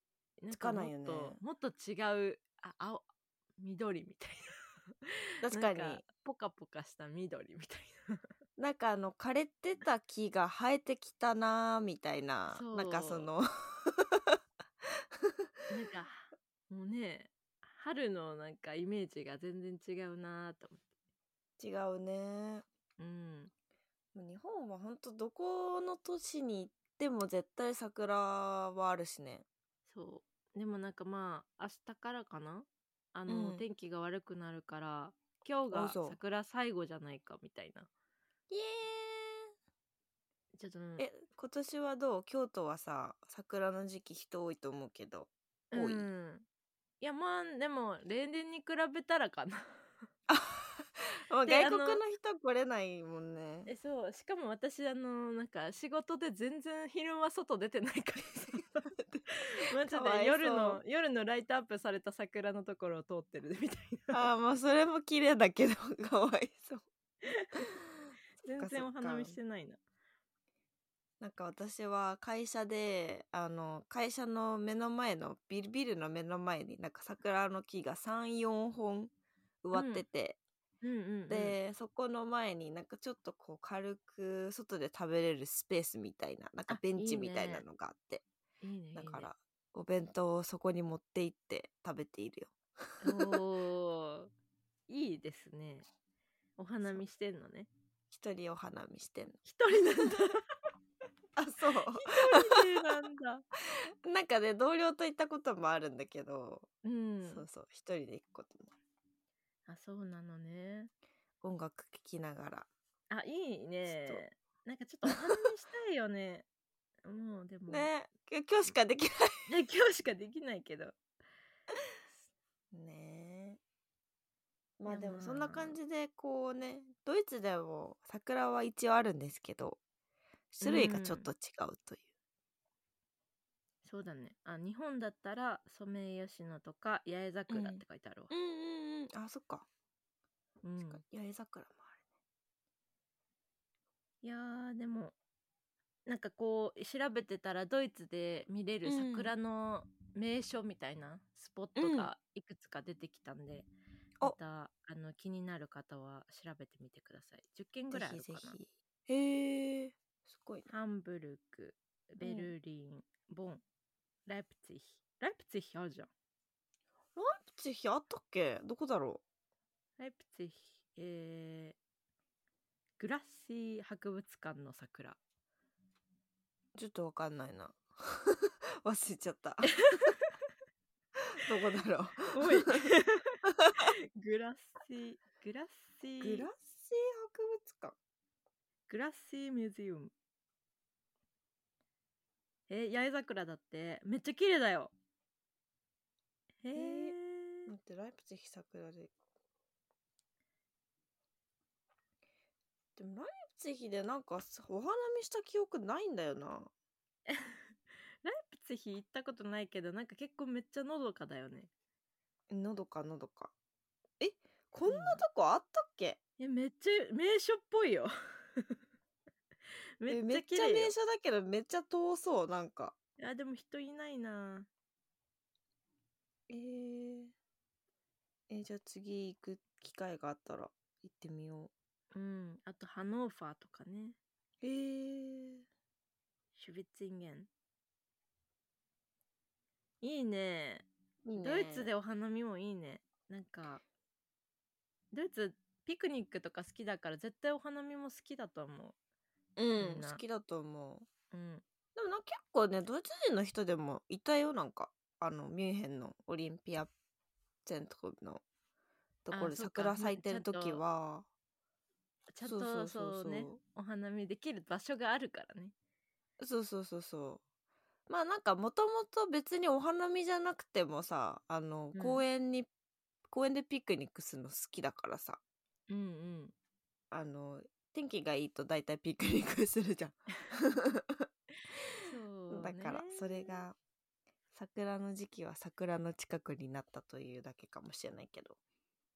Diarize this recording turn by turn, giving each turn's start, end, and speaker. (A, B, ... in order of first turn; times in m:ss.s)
0:00.4-0:03.1 A
0:00.5-0:01.4 B
0:03.6-0:08.2 A
0:05.4-0:06.0 B
0:08.6-0:14.4 B
0:12.5-0:13.3 A
0:15.7-0:20.8 A
0:21.6-0:22.6 B
0:23.0-0:23.5 A
0:24.1-0:29.4 B
0:29.9-0:37.9 A
0:33.3-0:33.6 B
0:35.7-0:36.2 B
0:38.5-0:39.5 B
0:40.6-0:41.0 A
0:41.0-0:46.0 B
0:45.7-0:46.4 A
0:47.0-0:49.6 A
0:50.3-0:53.7 B
0:51.4-0:52.0 A
0:53.7-0:58.9 A
0:59.0-1:00.8 B
0:59.7-1:04.2 A
1:04.1-1:06.8 B
1:07.3-1:07.7 A
1:08.4-1:09.8 A
1:08.5-1:09.4 B
1:11.2-1:19.1 B
1:19.6-1:20.4 B
1:19.7-1:20.0 A
1:20.8-1:21.6 A
1:21.3-1:28.2 B
1:26.7-1:27.6 A
1:28.6-1:29.3 A
1:28.9-1:33.4 B
1:33.0-1:34.3 A
1:34.9-1:35.9 A
1:36.6-1:37.7 A
1:38.1-1:40.3 B
1:39.4-1:40.4 A
1:41.4-1:42.7 B
1:41.9-1:43.4 A
1:44.0-1:46.7 B
1:46.8-1:47.4 A
1:47.2-1:48.7 B
1:49.7-1:50.9 A
1:51.4-1:52.7 B
1:53.1-1:56.4 A
1:53.8-1:54.2 B
1:57.0-1:57.9 A
1:57.7-1:59.4 B
1:59.5-2:01.0 A
2:02.7-2:03.6 B
2:04.8-2:09.8 B
2:04.8-2:05.8 A
2:10.5-2:12.1 B
2:10.6-2:11.3 A
2:13.8-2:18.3 A
2:17.5-2:19.7 B
2:20.6-2:21.0 A
2:20.8-2:22.0 B
2:24.2-2:25.1 A
2:26.0-2:33.7 A
2:28.8-2:29.3 B
2:31.8-2:32.1 B
2:34.2-2:38.6 A
2:37.9-2:40.7 B
2:40.7-2:43.6 A
2:42.2-2:42.5 B
2:44.3-2:46.1 A
2:47.1-2:49.2 B
2:50.0-2:51.8 A
2:53.0-2:55.2 A
2:56.7-3:00.0 B
3:01.4-3:02.8 B
3:02.3-3:06.5 A
3:06.2-3:08.0 B
3:08.9-3:10.1 A
3:12.7-3:14.9 A
3:16.6-3:17.7 A
3:16.7-3:17.2 B
3:17.7-3:19.1 B
3:23.0-3:26.7 B
3:27.3-3:31.7 A
3:32.5-3:33.5 B
3:34.2-3:36.2 B
3:34.8-3:35.2 A
3:36.4-3:38.8 A
3:40.0-3:40.9 A
3:40.1-3:43.0 B
3:43.2-3:44.7 A
3:46.5-3:47.3 B
3:48.5-3:51.7 B
3:52.1-3:54.2 A
3:54.6-3:55.6 B
3:56.6-3:57.5 A
4:00.0-4:03.8 A
4:01.2-4:01.9 B
4:05.1-4:08.9 A
4:09.6-4:11.1 B
4:09.8-4:10.2 A
4:11.3-4:11.6 A
4:11.9-4:16.9 B
4:17.6-4:18.4 B
4:19.2-4:21.3 B
4:19.3-4:20.8 A
4:22.3-4:25.7 A
4:22.4-4:23.6 B
4:26.4-4:27.4 B
4:28.1-4:32.7 B
4:31.9-4:32.2 A
4:33.3-4:35.4 B
4:35.9-4:36.5 A
4:37.1-4:41.2 B
4:42.0-4:43.6 A
4:42.5-4:43.8 B
4:44.5-4:48.6 B